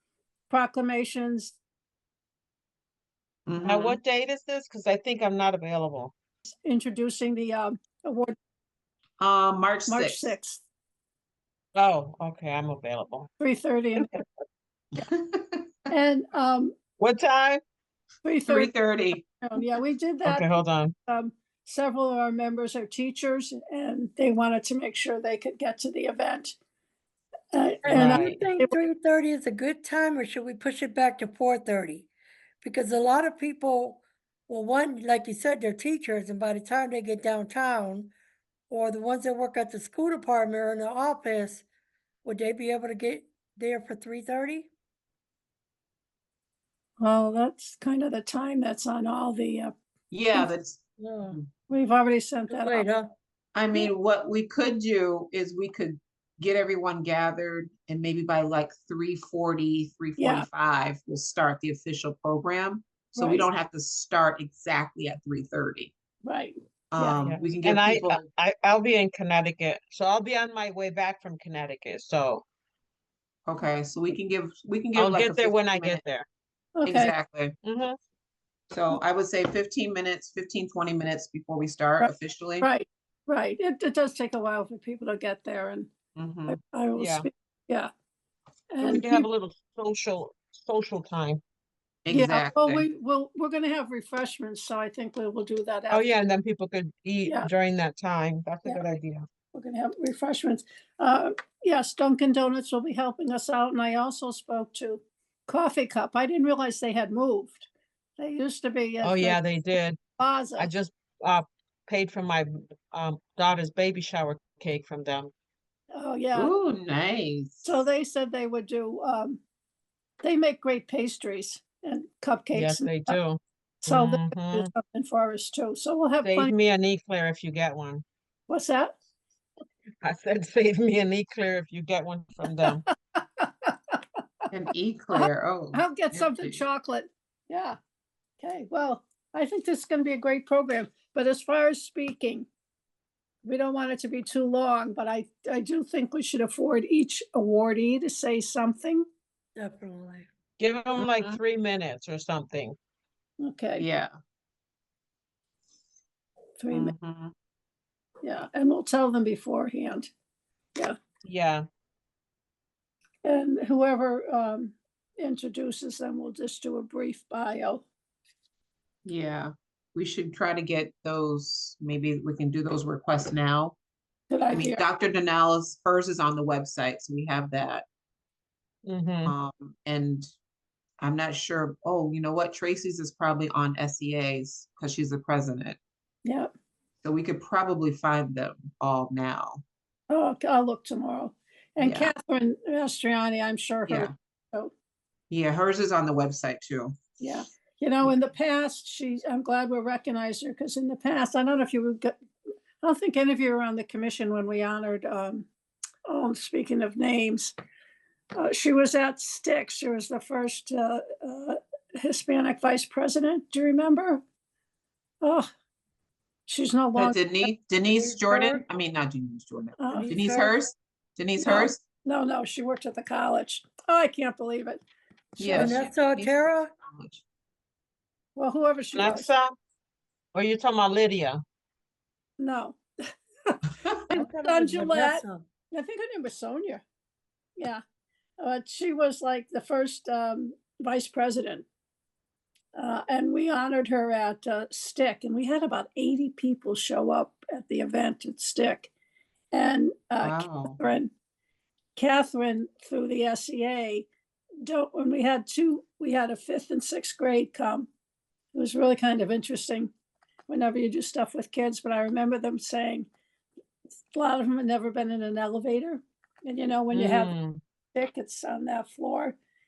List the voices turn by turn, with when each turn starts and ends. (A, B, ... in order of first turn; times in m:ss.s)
0:00.5-0:01.6 A
0:03.5-0:04.0 B
0:03.6-0:06.1 C
0:06.6-0:08.4 A
0:09.2-0:10.3 B
0:09.9-0:10.6 A
0:11.8-0:13.3 C
0:13.4-0:14.1 A
0:14.0-0:14.2 C
0:15.0-0:15.7 B
0:15.9-0:16.8 A
0:17.0-0:17.6 C
0:18.2-0:18.7 A
0:18.5-0:19.2 B
0:19.4-0:20.5 A
0:20.2-0:20.9 C
0:21.1-0:26.6 A
0:27.5-0:28.7 A
0:27.8-0:32.1 D
0:27.9-0:28.4 C
0:32.6-0:38.1 D
0:38.7-0:41.6 D
0:42.2-0:44.7 D
0:47.0-0:49.7 A
0:50.1-0:51.5 B
0:51.0-0:51.4 D
0:51.7-0:52.9 A
0:52.5-0:53.1 D
0:53.5-1:05.9 B
1:00.2-1:00.5 A
1:03.2-1:03.4 A
1:06.2-1:07.3 A
1:06.9-1:08.2 B
1:07.2-1:12.4 C
1:13.5-1:16.0 B
1:15.0-1:16.3 C
1:16.8-1:17.1 A
1:16.8-1:17.6 B
1:17.6-1:18.0 C
1:18.7-1:22.7 B
1:22.0-1:25.9 A
1:26.2-1:26.6 B
1:26.5-1:27.9 A
1:27.0-1:27.3 C
1:28.7-1:29.2 A
1:28.8-1:31.4 C
1:32.0-1:32.9 B
1:32.1-1:36.1 A
1:35.9-1:39.2 C
1:39.5-1:49.4 A
1:49.0-1:50.0 C
1:50.2-1:50.7 A
1:50.6-1:55.3 C
1:55.9-1:56.6 A
1:56.3-1:57.7 B
1:57.6-1:59.4 A
2:00.2-2:03.2 A
2:02.5-2:04.7 C
2:03.8-2:06.5 A
2:06.2-2:08.0 C
2:08.5-2:09.0 A
2:10.0-2:12.8 C
2:12.7-2:14.0 A
2:14.5-2:16.6 B
2:15.1-2:17.8 A
2:18.4-2:22.5 A
2:23.4-2:29.1 A
2:29.6-2:30.3 D
2:30.6-2:32.8 C
2:31.0-2:31.4 B
2:33.4-2:33.9 A
2:33.8-2:34.2 B
2:36.6-2:36.9 A
2:36.7-2:37.3 B
2:38.2-2:40.1 A
2:41.2-2:41.6 C
2:43.2-2:47.8 A
2:49.0-2:53.8 B
2:54.3-2:54.8 A
2:54.5-2:57.8 B
2:58.9-2:59.4 C
2:59.3-3:00.3 B
3:01.0-3:05.8 B
3:06.2-3:06.5 A
3:07.0-3:09.6 B
3:10.1-3:14.7 A
3:11.8-3:12.1 B
3:13.9-3:14.1 B
3:15.3-3:17.0 B
3:17.2-3:22.2 A
3:22.8-3:25.5 A
3:26.1-3:27.5 A
3:28.4-3:34.2 A
3:35.2-3:35.5 A
3:36.5-3:37.2 A
3:37.0-3:41.8 B
3:37.9-3:38.6 D
3:39.8-3:40.4 A
3:39.9-3:40.5 D
3:41.4-3:44.8 A
3:45.4-3:47.2 B
3:45.5-3:46.7 D
3:48.4-3:49.3 A
3:48.9-3:49.6 C
3:50.3-3:51.4 C
3:52.4-3:52.8 A
3:54.1-3:56.8 A
3:54.1-3:55.5 D
3:57.6-3:57.8 A
3:58.4-4:01.7 A
4:02.8-4:08.9 A
4:09.5-4:11.1 A
4:10.2-4:10.8 B
4:12.0-4:14.1 A
4:14.6-4:17.9 A
4:18.5-4:19.9 A
4:20.5-4:23.1 A
4:24.1-4:27.3 A
4:26.9-4:27.6 C
4:27.9-4:29.4 A